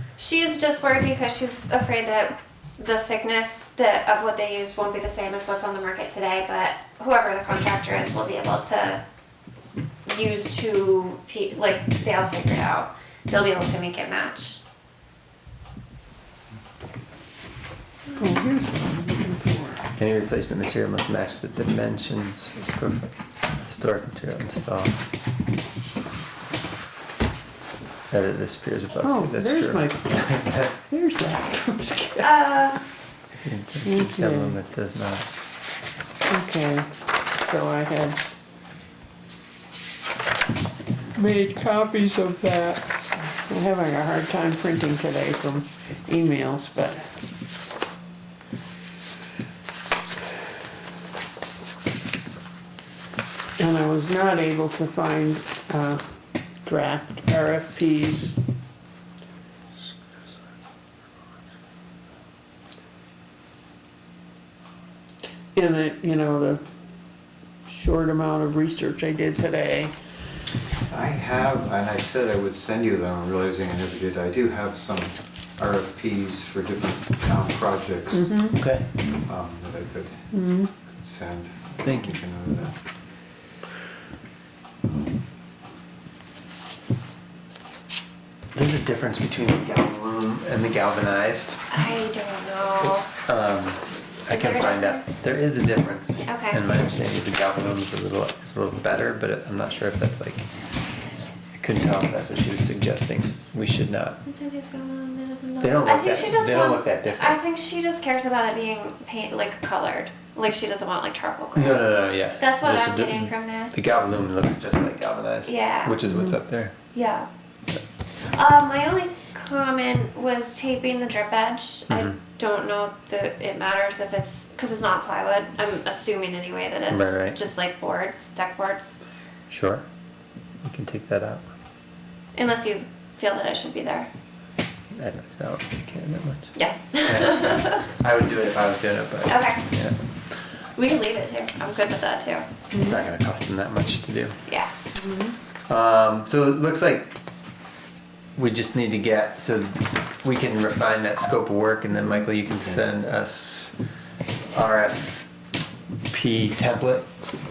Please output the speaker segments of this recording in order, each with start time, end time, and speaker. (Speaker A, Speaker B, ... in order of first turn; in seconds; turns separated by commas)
Speaker A: 0.2-9.0, Speaker A: 10.1-14.6, Speaker B: 18.2-19.8, Speaker C: 20.0-25.0, Speaker C: 28.1-30.7, Speaker B: 29.0-32.5, Speaker A: 32.2-32.8, Speaker C: 33.3-35.3, Speaker B: 33.9-34.6, Speaker B: 36.3-38.2, Speaker B: 41.1-47.1, Speaker B: 53.6-56.0, Speaker B: 56.6-58.4, Speaker B: 65.5-66.6, Speaker B: 67.7-69.9, Speaker D: 70.9-78.4, Speaker B: 78.1-78.6, Speaker C: 78.5-78.9, Speaker D: 79.2-80.3, Speaker B: 80.3-80.7, Speaker D: 81.0-82.8, Speaker C: 81.8-82.2, Speaker C: 88.5-91.6, Speaker A: 91.7-93.1, Speaker C: 93.2-100.5, Speaker A: 94.3-95.1, Speaker A: 96.3-96.6, Speaker C: 101.6-104.2, Speaker A: 104.2-113.8, Speaker C: 105.6-107.4, Speaker C: 111.5-116.8, Speaker A: 115.5-116.0, Speaker A: 116.9-117.3, Speaker A: 118.3-129.0, Speaker C: 121.9-122.2, Speaker C: 126.9-127.4, Speaker C: 129.5-129.8, Speaker C: 130.6-131.5, Speaker A: 132.4-134.1, Speaker C: 134.9-139.9, Speaker A: 136.6-137.9, Speaker A: 139.3-139.6, Speaker A: 140.8-142.5, Speaker C: 142.7-144.4, Speaker B: 144.9-145.3, Speaker C: 145.7-147.1, Speaker C: 148.4-153.7, Speaker C: 154.5-155.2, Speaker C: 156.1-157.1